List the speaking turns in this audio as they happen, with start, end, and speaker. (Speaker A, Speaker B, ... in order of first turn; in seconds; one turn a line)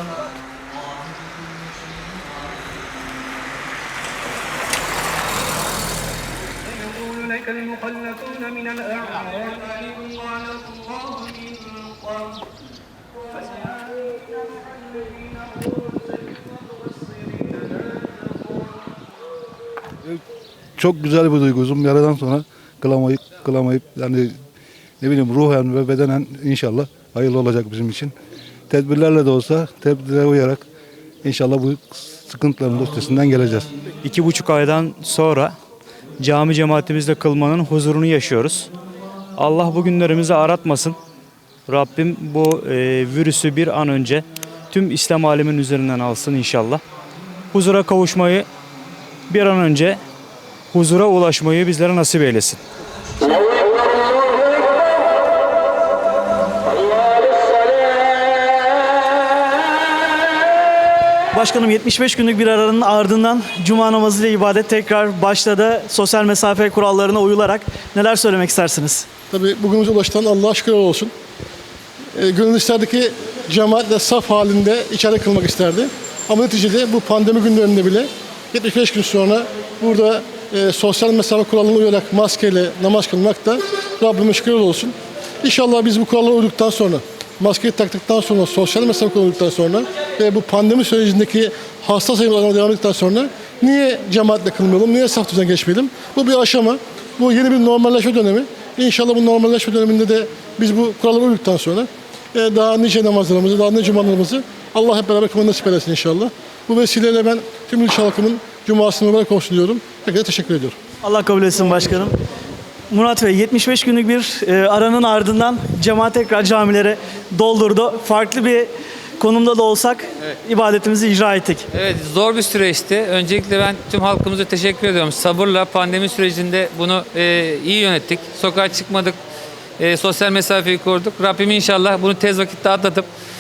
Speaker A: 20.8-24.4
Speaker A: 25.0-28.1
Speaker A: 28.7-30.6
Speaker A: 31.2-33.7
Speaker B: 34.0-35.5
Speaker B: 36.2-38.7
Speaker B: 39.4-41.0
Speaker B: 41.7-46.8
Speaker B: 47.5-48.5
Speaker B: 49.3-50.0
Speaker B: 50.7-52.6
Speaker C: 61.3-69.1
Speaker D: 69.3-71.1
Speaker D: 72.2-110.8
Speaker C: 111.0-112.2
Speaker C: 112.9-121.7
Speaker E: 121.7-129.2
Speaker E: 129.8-133.1